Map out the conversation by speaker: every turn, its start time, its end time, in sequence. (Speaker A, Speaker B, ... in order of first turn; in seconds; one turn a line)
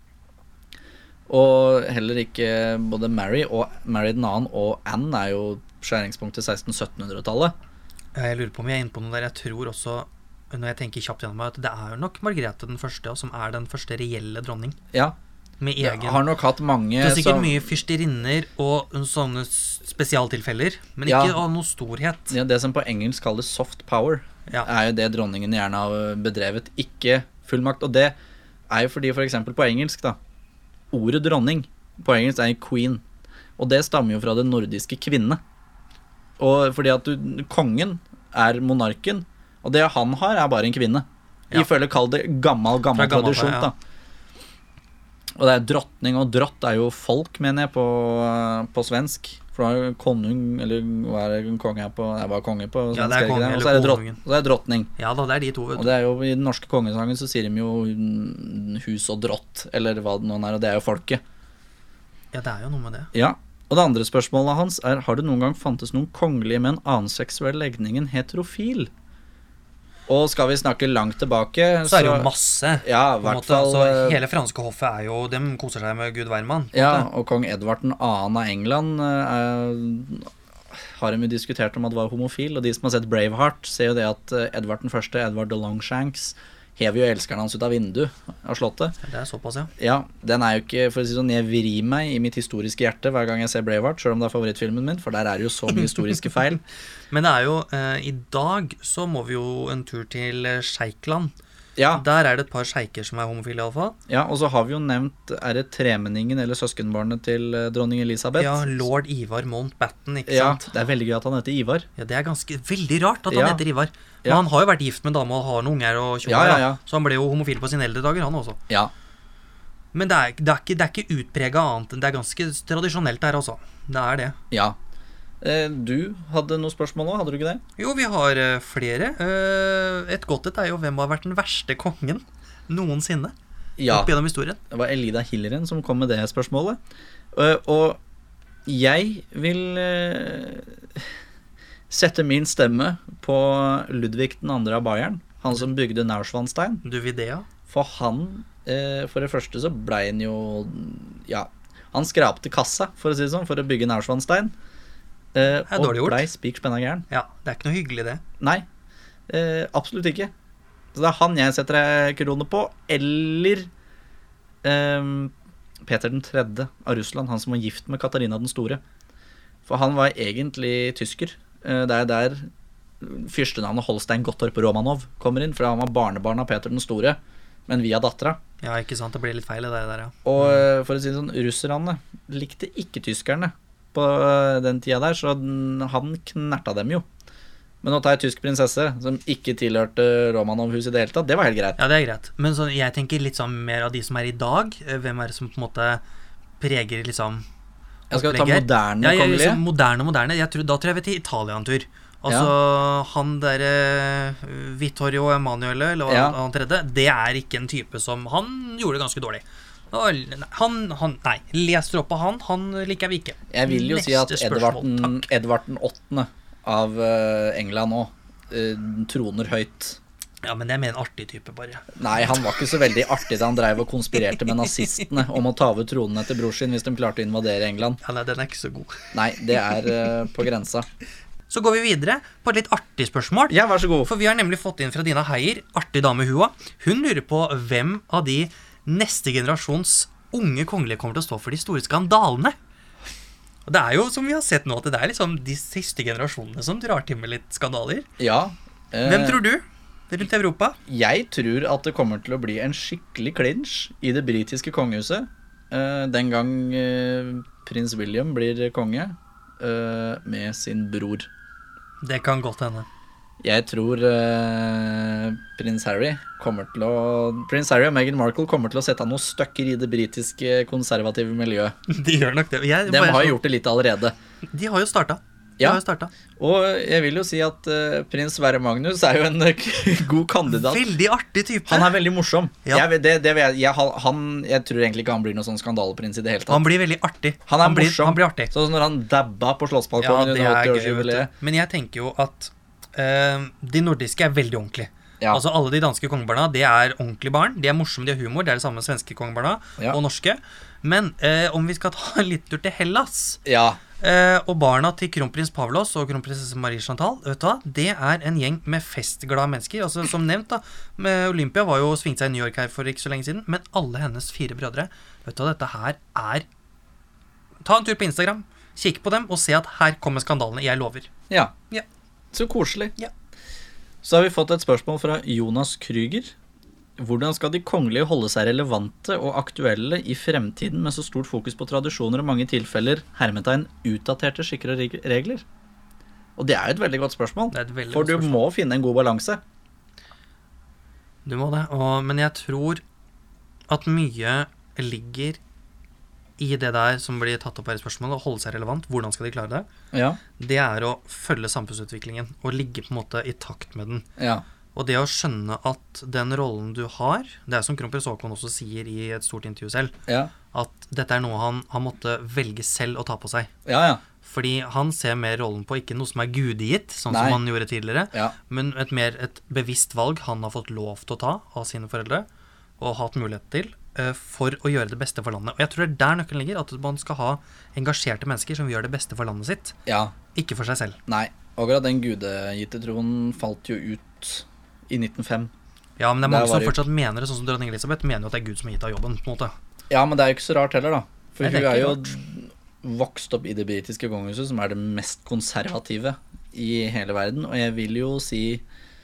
Speaker A: 1.3-7.5
Speaker B: 8.1-14.8
Speaker B: 15.6-16.2
Speaker A: 15.8-17.7
Speaker B: 17.0-22.3
Speaker A: 21.1-21.4
Speaker A: 22.3-28.1
Speaker A: 28.7-30.2
Speaker A: 30.9-33.0
Speaker A: 33.6-35.4
Speaker A: 36.4-43.7
Speaker B: 42.9-43.7
Speaker A: 45.4-54.9
Speaker B: 52.9-54.2
Speaker B: 55.0-55.9
Speaker A: 55.8-61.2
Speaker B: 62.3-63.1
Speaker A: 63.1-68.9
Speaker A: 70.1-72.3
Speaker B: 71.8-77.1
Speaker A: 72.8-74.2
Speaker A: 76.7-89.0
Speaker B: 89.0-89.7
Speaker A: 89.8-96.6
Speaker B: 97.1-101.3
Speaker A: 101.8-102.0
Speaker B: 101.9-104.0
Speaker A: 104.1-108.8
Speaker B: 108.4-110.8
Speaker A: 110.3-111.9
Speaker B: 112.0-118.6
Speaker A: 113.3-113.6
Speaker A: 116.2-116.8
Speaker B: 119.9-124.4
Speaker A: 124.5-124.8
Speaker A: 125.4-127.6
Speaker B: 127.8-133.3
Speaker A: 133.8-134.1
Speaker B: 133.9-134.6
Speaker A: 134.7-136.8
Speaker A: 137.3-138.0
Speaker A: 138.7-141.1
Speaker A: 141.9-146.8
Speaker B: 146.8-147.5
Speaker A: 147.7-154.5
Speaker A: 155.3-157.1
Speaker B: 155.7-156.3
Speaker B: 157.1-158.2
Speaker A: 158.4-158.7
Speaker A: 159.3-160.3
Speaker A: 160.9-163.7
Speaker A: 164.6-168.8
Speaker A: 169.7-172.5
Speaker A: 173.0-178.4
Speaker B: 178.6-180.6
Speaker A: 180.2-187.0
Speaker A: 187.8-191.8
Speaker B: 191.8-196.0
Speaker B: 196.6-197.4
Speaker B: 198.1-215.3
Speaker A: 198.1-199.6
Speaker A: 202.3-202.5
Speaker A: 206.1-206.4
Speaker A: 213.5-220.0
Speaker B: 220.4-222.4
Speaker A: 221.9-228.0
Speaker B: 224.3-225.1
Speaker B: 228.0-230.1
Speaker A: 229.1-230.8
Speaker B: 231.5-242.5
Speaker A: 233.5-234.1
Speaker B: 243.7-248.1
Speaker A: 248.2-249.4
Speaker B: 249.0-250.8
Speaker A: 250.9-261.3
Speaker B: 262.0-262.9
Speaker A: 263.4-271.7
Speaker B: 271.9-273.4
Speaker A: 272.9-274.1
Speaker B: 274.5-276.1
Speaker A: 276.4-280.9
Speaker B: 280.5-282.0
Speaker A: 281.7-286.7
Speaker B: 286.5-288.5
Speaker A: 287.5-291.3
Speaker B: 290.0-303.4
Speaker A: 303.4-303.8
Speaker B: 304.0-316.4
Speaker B: 317.6-321.1
Speaker A: 322.3-322.9
Speaker A: 324.0-326.3
Speaker A: 327.0-335.4
Speaker A: 336.4-339.4
Speaker B: 337.5-338.4
Speaker B: 341.2-342.8
Speaker B: 343.7-345.4
Speaker B: 346.4-349.7
Speaker A: 349.9-350.2
Speaker B: 350.4-354.1
Speaker A: 354.2-354.4
Speaker B: 354.7-359.9
Speaker A: 360.1-360.3
Speaker B: 360.5-363.5
Speaker A: 363.6-364.0
Speaker B: 364.2-372.2
Speaker A: 367.1-367.4
Speaker B: 372.8-379.8
Speaker A: 379.9-380.1
Speaker B: 380.3-381.0
Speaker A: 381.1-385.5
Speaker B: 386.0-389.5
Speaker A: 386.2-386.8
Speaker A: 389.9-398.6
Speaker B: 391.4-392.1